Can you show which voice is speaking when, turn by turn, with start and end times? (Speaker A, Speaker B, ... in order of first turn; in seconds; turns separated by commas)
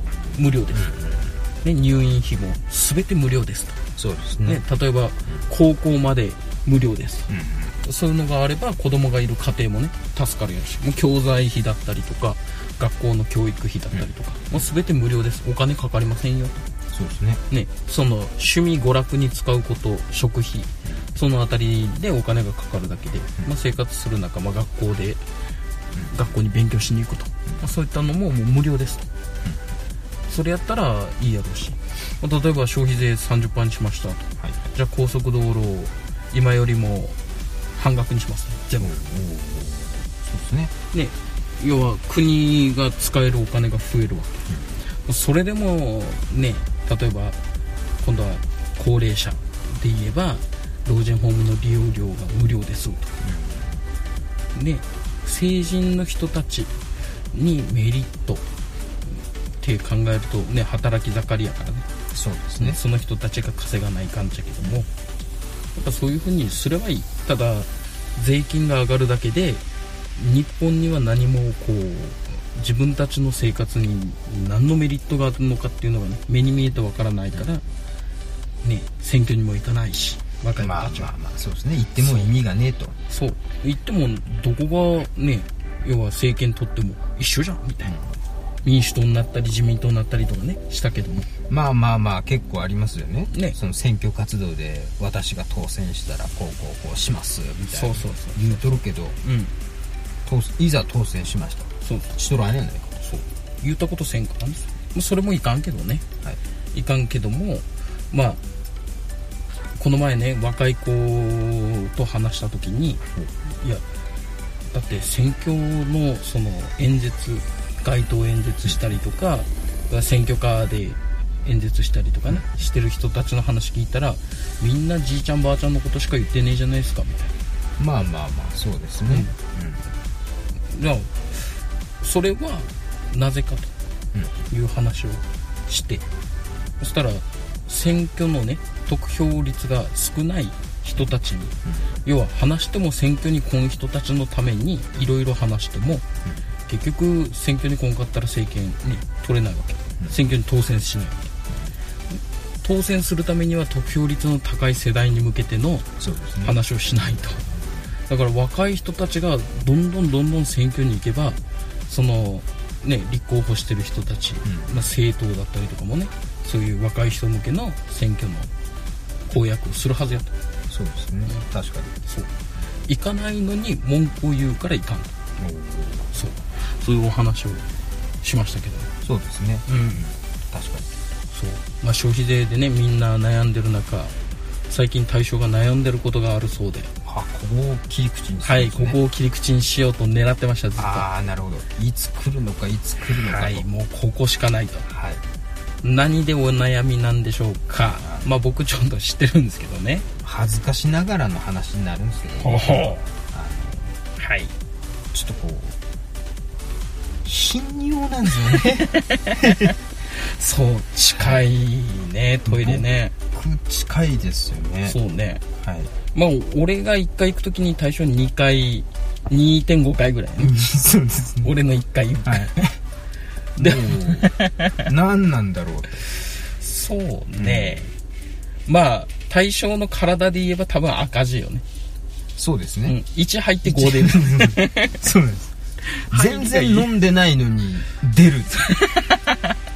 Speaker A: 0.3-0.9, Speaker B: 0.7-1.4, Speaker A: 1.6-3.8, Speaker B: 4.0-4.6, Speaker A: 4.4-7.3, Speaker B: 7.3-7.7, Speaker A: 7.8-16.6, Speaker B: 13.9-14.7, Speaker B: 16.9-17.4, Speaker A: 17.5-25.2, Speaker A: 26.1-29.1, Speaker A: 30.3-37.2, Speaker A: 37.7-38.9, Speaker B: 38.8-40.7, Speaker A: 40.9-44.4, Speaker A: 45.0-47.4, Speaker A: 48.0-53.1, Speaker B: 53.2-53.8, Speaker A: 54.5-56.7, Speaker A: 57.3-58.4, Speaker A: 59.1-61.9, Speaker B: 62.1-62.8, Speaker A: 62.6-64.9, Speaker A: 65.7-69.6, Speaker A: 70.2-77.6, Speaker A: 78.6-81.1, Speaker B: 80.6-83.0, Speaker A: 82.0-82.3, Speaker A: 83.1-87.9, Speaker B: 87.8-88.2, Speaker A: 88.6-91.3, Speaker B: 91.5-99.2, Speaker A: 97.6-98.6, Speaker A: 99.2-99.5, Speaker B: 100.2-103.1, Speaker A: 101.8-102.1, Speaker A: 103.1-106.0, Speaker A: 106.7-108.4, Speaker A: 109.8-113.8, Speaker A: 114.7-127.3, Speaker B: 127.8-129.8, Speaker A: 129.1-129.3, Speaker A: 130.7-133.7, Speaker A: 134.5-136.0, Speaker A: 136.8-146.0, Speaker A: 146.7-151.3, Speaker A: 152.1-155.9, Speaker B: 156.0-156.6, Speaker A: 156.4-157.4, Speaker B: 157.4-157.8, Speaker A: 158.1-168.5, Speaker B: 164.4-164.9, Speaker A: 169.3-170.3, Speaker B: 170.7-171.9, Speaker A: 172.9-175.1, Speaker B: 175.4-176.1, Speaker A: 176.1-177.7, Speaker A: 178.2-178.9, Speaker B: 179.0-180.9, Speaker A: 179.7-180.0, Speaker A: 181.3-184.1, Speaker A: 184.7-186.9, Speaker B: 187.1-189.0, Speaker A: 188.4-191.1, Speaker B: 190.8-193.7, Speaker A: 193.1-194.9, Speaker B: 194.9-195.2, Speaker A: 195.8-200.1, Speaker B: 198.0-198.3, Speaker B: 200.2-204.0, Speaker A: 202.4-203.1, Speaker A: 204.2-204.5, Speaker B: 205.1-205.8, Speaker B: 207.2-209.7, Speaker A: 208.5-213.1, Speaker B: 211.2-211.4, Speaker B: 212.4-215.0, Speaker A: 214.8-215.4, Speaker B: 215.6-215.9, Speaker A: 216.1-220.6, Speaker B: 220.4-221.5, Speaker A: 221.4-222.7, Speaker B: 222.2-222.6, Speaker B: 223.6-226.0, Speaker A: 223.6-224.8, Speaker A: 226.5-227.9, Speaker B: 227.3-227.9, Speaker A: 228.7-231.6, Speaker B: 232.3-233.0, Speaker A: 232.9-235.0, Speaker B: 233.6-235.5, Speaker A: 235.8-236.9, Speaker B: 236.1-238.5, Speaker A: 238.6-239.4